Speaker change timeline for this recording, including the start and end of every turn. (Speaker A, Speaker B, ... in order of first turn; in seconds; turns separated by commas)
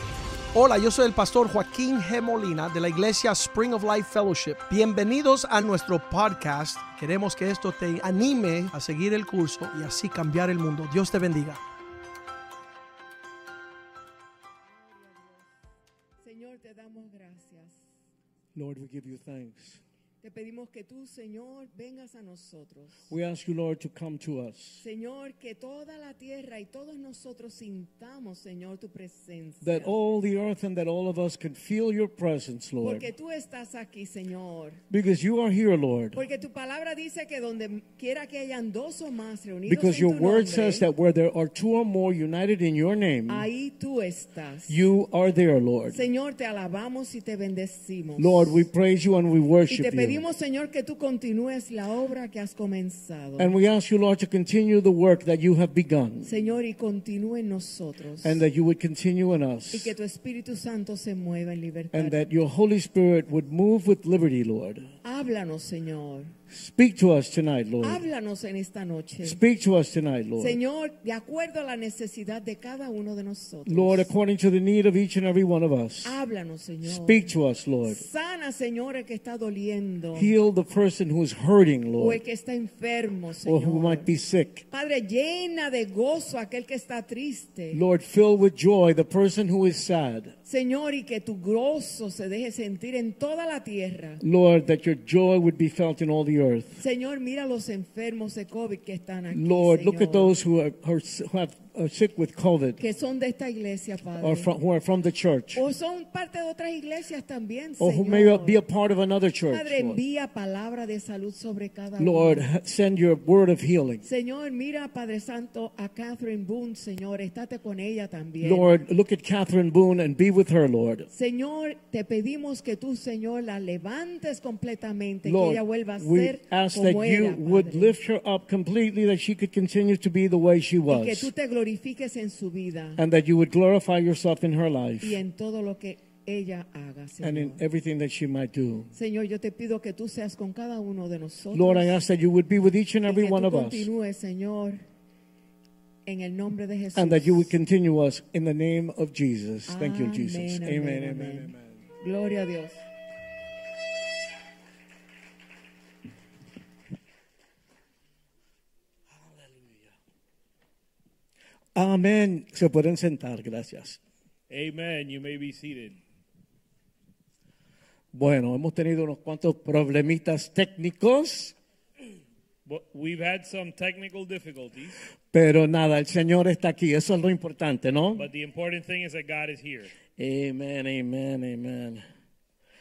Speaker A: 0.5-11.6, Speaker B: 14.7-15.5, Speaker B: 16.2-17.8, Speaker C: 18.5-19.8, Speaker B: 20.2-23.1, Speaker C: 23.1-24.8, Speaker B: 24.8-29.9, Speaker C: 29.6-33.1, Speaker B: 32.8-34.8, Speaker C: 34.9-36.2, Speaker B: 36.1-40.9, Speaker C: 39.7-43.5, Speaker B: 43.3-44.8, Speaker C: 44.7-46.0, Speaker B: 45.9-48.6, Speaker C: 48.2-50.2, Speaker B: 49.7-53.5, Speaker C: 53.4-56.3, Speaker B: 56.2-58.4, Speaker C: 58.2-59.9, Speaker B: 59.7-62.2, Speaker C: 61.9-64.9, Speaker B: 65.0-66.3, Speaker C: 66.5-68.0, Speaker B: 67.8-69.4, Speaker C: 69.2-70.6, Speaker B: 70.4-74.1, Speaker C: 73.7-76.2, Speaker B: 76.0-77.3, Speaker C: 76.8-78.0, Speaker B: 77.8-80.3, Speaker C: 80.1-82.2, Speaker B: 82.0-84.1, Speaker C: 83.4-84.6, Speaker B: 84.7-87.8, Speaker C: 87.7-90.3, Speaker B: 90.5-94.2, Speaker C: 94.2-96.8, Speaker B: 96.8-100.3, Speaker C: 99.3-102.8, Speaker B: 102.8-104.5, Speaker C: 104.2-105.6, Speaker B: 105.5-108.6, Speaker C: 107.8-110.0, Speaker B: 109.5-112.4, Speaker C: 112.0-114.0, Speaker B: 114.0-118.7, Speaker C: 118.4-121.1, Speaker B: 121.1-127.9, Speaker C: 125.2-131.3, Speaker B: 130.9-133.0, Speaker C: 133.0-135.2, Speaker B: 135.0-137.6, Speaker C: 137.2-138.9, Speaker B: 138.9-141.9, Speaker C: 141.5-143.9, Speaker B: 143.1-144.8, Speaker B: 146.1-147.5, Speaker C: 146.9-151.8, Speaker B: 149.7-152.8, Speaker C: 159.1-159.9, Speaker C: 161.7-164.0, Speaker D: 164.5-166.0, Speaker C: 168.1-171.5, Speaker D: 172.7-175.0, Speaker C: 175.3-178.3, Speaker D: 178.1-179.9, Speaker C: 180.2-182.0